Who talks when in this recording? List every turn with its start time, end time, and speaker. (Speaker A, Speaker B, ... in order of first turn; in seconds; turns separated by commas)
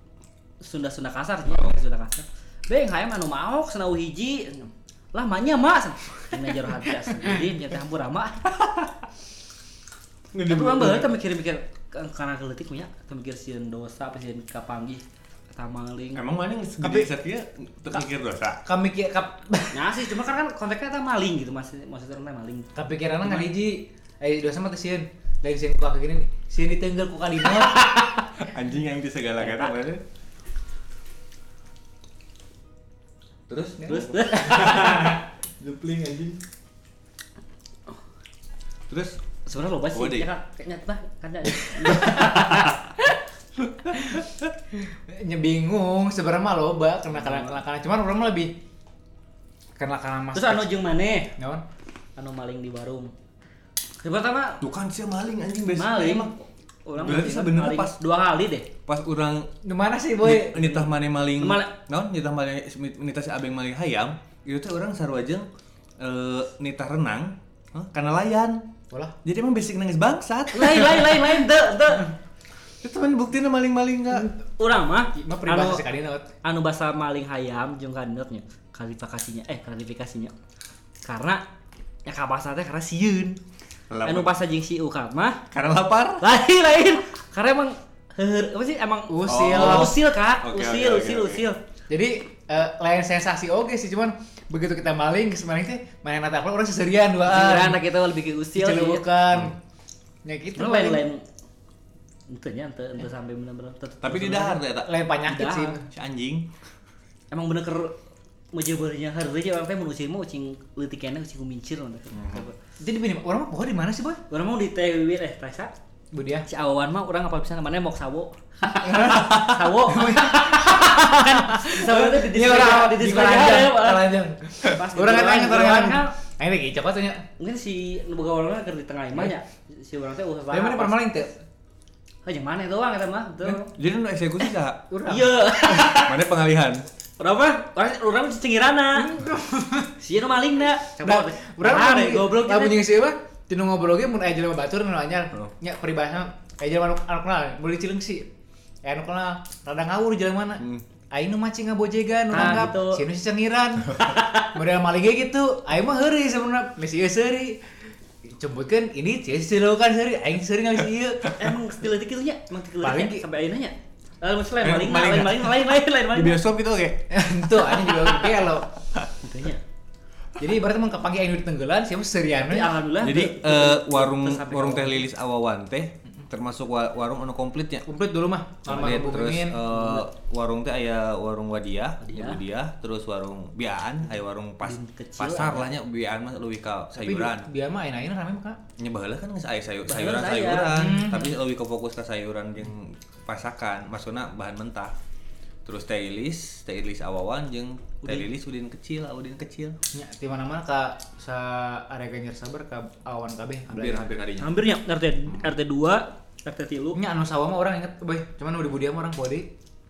Speaker A: 0.6-8.4, Speaker B: 1.5-1.8, Speaker B: 8.5-8.9, Speaker B: 10.3-11.1, Speaker A: 10.5-16.2, Speaker B: 16.1-18.6, Speaker C: 16.8-17.1, Speaker C: 18.6-19.9, Speaker A: 19.7-22.7, Speaker C: 22.7-28.2, Speaker B: 28.4-30.0, Speaker A: 29.4-29.7, Speaker B: 33.5-36.4, Speaker A: 33.8-35.2, Speaker C: 33.9-35.2, Speaker B: 38.9-39.2, Speaker A: 39.5-42.8, Speaker B: 39.9-40.3, Speaker C: 41.8-43.2, Speaker C: 43.9-48.6, Speaker B: 43.9-44.4, Speaker A: 47.2-47.5, Speaker C: 49.8-50.7, Speaker A: 50.3-51.3, Speaker C: 51.4-51.6, Speaker A: 52.2-53.1, Speaker A: 54.0-54.6, Speaker B: 54.6-56.3, Speaker A: 55.7-58.7, Speaker B: 57.0-58.0, Speaker B: 58.9-59.5, Speaker C: 59.6-60.7, Speaker B: 60.2-65.5, Speaker A: 60.5-60.9, Speaker A: 61.4-61.7, Speaker B: 66.0-68.7, Speaker B: 69.2-71.3, Speaker A: 70.5-72.1, Speaker B: 72.8-74.3, Speaker A: 74.6-75.8, Speaker C: 75.1-76.3, Speaker A: 76.4-80.3, Speaker A: 81.0-81.4, Speaker A: 82.0-83.4, Speaker B: 83.9-84.3, Speaker A: 84.0-85.4, Speaker B: 85.5-86.3, Speaker A: 86.2-91.6, Speaker C: 89.1-90.0, Speaker B: 89.2-91.5, Speaker C: 91.9-97.9, Speaker A: 97.2-99.0, Speaker C: 98.5-99.6, Speaker C: 100.2-101.0, Speaker A: 100.5-101.2, Speaker A: 102.3-104.6, Speaker B: 104.0-104.9, Speaker C: 104.7-105.8, Speaker A: 105.2-105.8, Speaker B: 105.9-106.5, Speaker A: 107.3-108.0, Speaker A: 108.5-112.5, Speaker B: 112.1-112.5, Speaker C: 112.8-114.2, Speaker A: 114.3-115.7, Speaker C: 116.1-116.5, Speaker A: 116.5-126.1, Speaker C: 118.7-127.3, Speaker B: 119.1-119.6, Speaker A: 127.4-131.1, Speaker C: 130.5-131.4, Speaker A: 132.2-133.7, Speaker B: 133.7-134.8, Speaker C: 134.9-135.6, Speaker A: 135.0-136.3, Speaker B: 135.8-136.9, Speaker A: 137.2-139.1, Speaker C: 138.9-140.0, Speaker A: 140.0-142.8, Speaker C: 141.0-148.3, Speaker C: 148.8-157.7, Speaker A: 152.3-153.1, Speaker A: 154.0-154.6, Speaker C: 158.2-161.5, Speaker A: 161.3-166.4, Speaker C: 162.8-163.2, Speaker B: 164.6-167.2, Speaker C: 167.1-168.7, Speaker A: 167.8-168.4, Speaker A: 169.1-169.6, Speaker C: 170.4-172.8, Speaker A: 172.4-175.0, Speaker B: 173.0-177.9, Speaker C: 177.9-179.7, Speaker B: 178.6-187.5, Speaker A: 179.7-180.0, Speaker A: 182.0-182.4, Speaker A: 184.6-185.7, Speaker C: 186.9-188.6, Speaker B: 188.8-194.9, Speaker A: 189.9-191.0, Speaker C: 190.7-191.3, Speaker B: 195.6-199.8, Speaker C: 199.9-204.1, Speaker B: 203.7-204.5, Speaker A: 204.4-207.0, Speaker C: 206.9-209.5